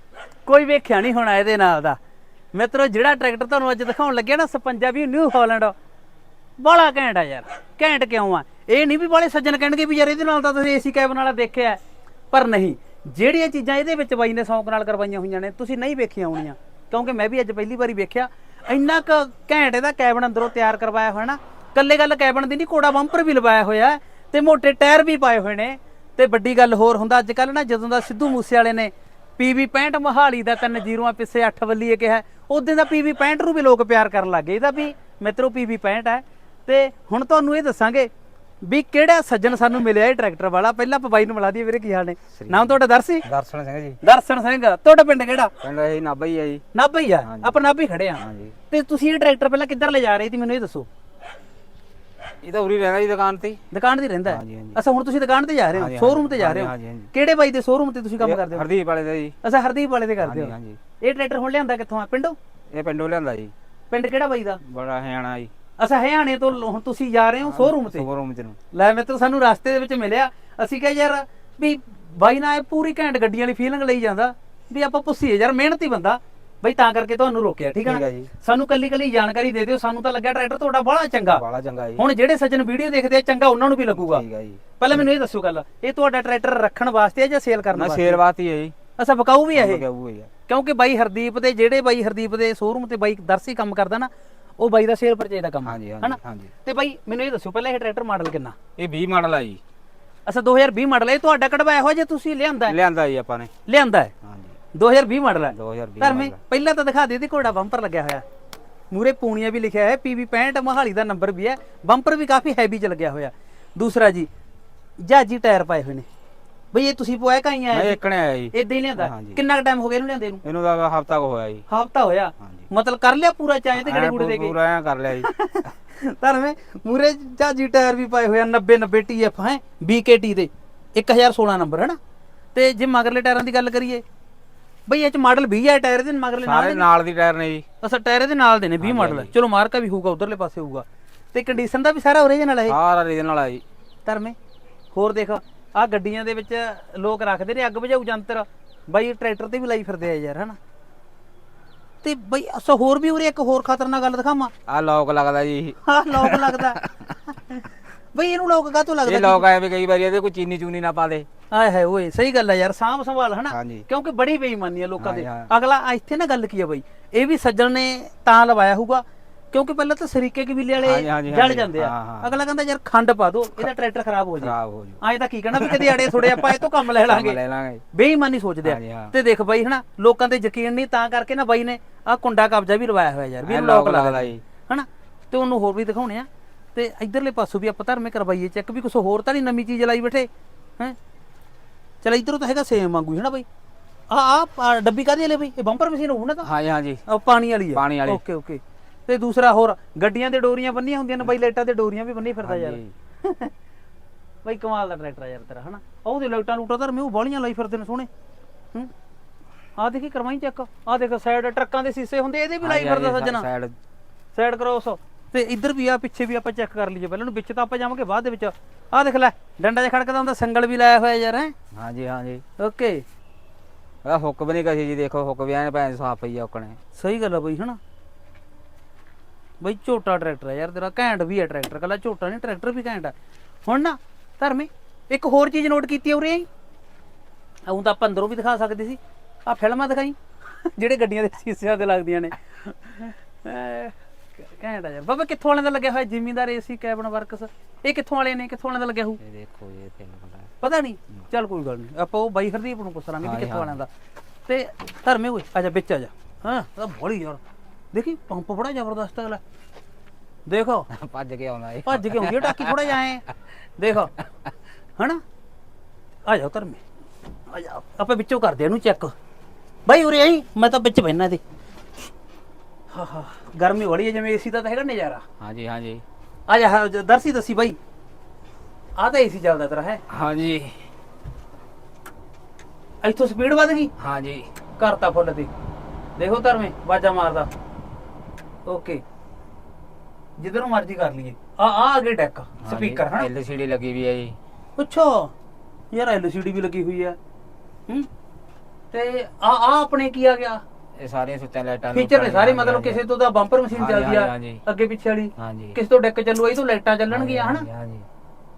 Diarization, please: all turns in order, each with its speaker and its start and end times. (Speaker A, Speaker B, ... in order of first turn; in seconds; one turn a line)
Speaker A: 0.5-2.0
Speaker A: 2.5-5.7
Speaker A: 6.6-11.8
Speaker A: 12.3-38.1
Speaker A: 38.6-43.3
Speaker B: 42.4-44.0
Speaker A: 44.0-45.5
Speaker B: 45.6-46.6
Speaker A: 46.7-50.9
Speaker B: 47.2-47.6
Speaker B: 48.2-48.5
Speaker B: 52.4-53.6
Speaker A: 53.7-58.7
Speaker B: 54.3-54.8
Speaker B: 55.7-57.1
Speaker B: 58.2-59.4
Speaker A: 59.4-62.4
Speaker B: 60.2-60.8
Speaker B: 62.7-63.5
Speaker A: 63.9-64.6
Speaker B: 64.6-65.5
Speaker A: 65.8-68.0
Speaker B: 67.4-68.6
Speaker A: 68.7-81.4
Speaker B: 77.8-78.3
Speaker B: 81.3-82.0
Speaker A: 82.0-84.2
Speaker B: 83.9-85.0
Speaker A: 84.8-88.2
Speaker B: 87.7-88.7
Speaker A: 89.0-89.8
Speaker B: 89.5-90.3
Speaker A: 90.5-98.5
Speaker B: 95.6-96.5
Speaker B: 98.8-99.6
Speaker A: 100.2-102.8
Speaker B: 102.7-103.5
Speaker A: 103.7-104.1
Speaker B: 104.2-104.5
Speaker A: 104.7-108.2
Speaker B: 105.5-106.4
Speaker A: 108.9-114.3
Speaker A: 115.0-116.1
Speaker A: 116.7-118.0
Speaker B: 117.7-119.4
Speaker A: 118.5-120.4
Speaker B: 120.4-121.6
Speaker A: 121.7-124.6
Speaker B: 123.8-125.3
Speaker A: 125.1-132.0
Speaker A: 132.5-134.0
Speaker A: 134.9-136.9
Speaker B: 136.4-137.6
Speaker A: 137.8-142.8
Speaker B: 138.8-139.3
Speaker B: 142.7-143.6
Speaker A: 144.1-144.3
Speaker A: 144.9-150.6
Speaker A: 152.0-154.5
Speaker B: 154.7-157.2
Speaker A: 155.8-156.8
Speaker A: 158.1-159.5
Speaker B: 159.1-161.2
Speaker A: 161.5-177.4
Speaker B: 163.5-163.8
Speaker B: 165.0-165.5
Speaker B: 170.8-172.3
Speaker B: 174.4-175.0
Speaker B: 175.5-177.8
Speaker A: 177.9-190.9
Speaker B: 178.6-179.1
Speaker B: 183.4-184.4
Speaker A: 192.0-193.4
Speaker A: 194.1-196.5
Speaker B: 196.4-197.0
Speaker A: 197.1-203.5
Speaker B: 197.7-198.2
Speaker B: 202.4-202.9
Speaker A: 204.4-208.1
Speaker A: 209.8-213.4
Speaker B: 212.6-213.8
Speaker A: 214.3-221.5
Speaker B: 221.7-222.4
Speaker A: 222.6-223.0
Speaker B: 224.0-226.8
Speaker A: 226.9-227.8
Speaker A: 229.6-233.1
Speaker A: 233.7-236.4
Speaker A: 237.7-240.2
Speaker A: 240.7-249.2
Speaker B: 249.2-250.5
Speaker A: 250.6-253.9
Speaker B: 253.2-253.8
Speaker A: 254.5-257.4
Speaker A: 257.9-259.4
Speaker A: 260.5-260.9
Speaker B: 260.9-262.9
Speaker A: 261.9-263.2
Speaker A: 263.8-264.1
Speaker A: 266.2-266.8
Speaker A: 267.5-269.1
Speaker A: 269.9-271.4
Speaker A: 272.9-275.2
Speaker B: 275.4-276.0
Speaker A: 276.5-277.8
Speaker A: 279.0-280.0
Speaker B: 280.1-280.8
Speaker A: 283.0-283.9
Speaker B: 284.0-284.5
Speaker A: 284.8-285.5
Speaker A: 286.2-287.5
Speaker A: 288.7-289.0
Speaker A: 290.4-293.3
Speaker B: 292.6-294.4
Speaker A: 294.8-295.3
Speaker A: 295.9-297.2
Speaker A: 298.9-300.6
Speaker B: 301.0-303.0
Speaker A: 301.9-307.6
Speaker B: 303.7-304.6
Speaker B: 305.4-305.8
Speaker B: 307.1-308.1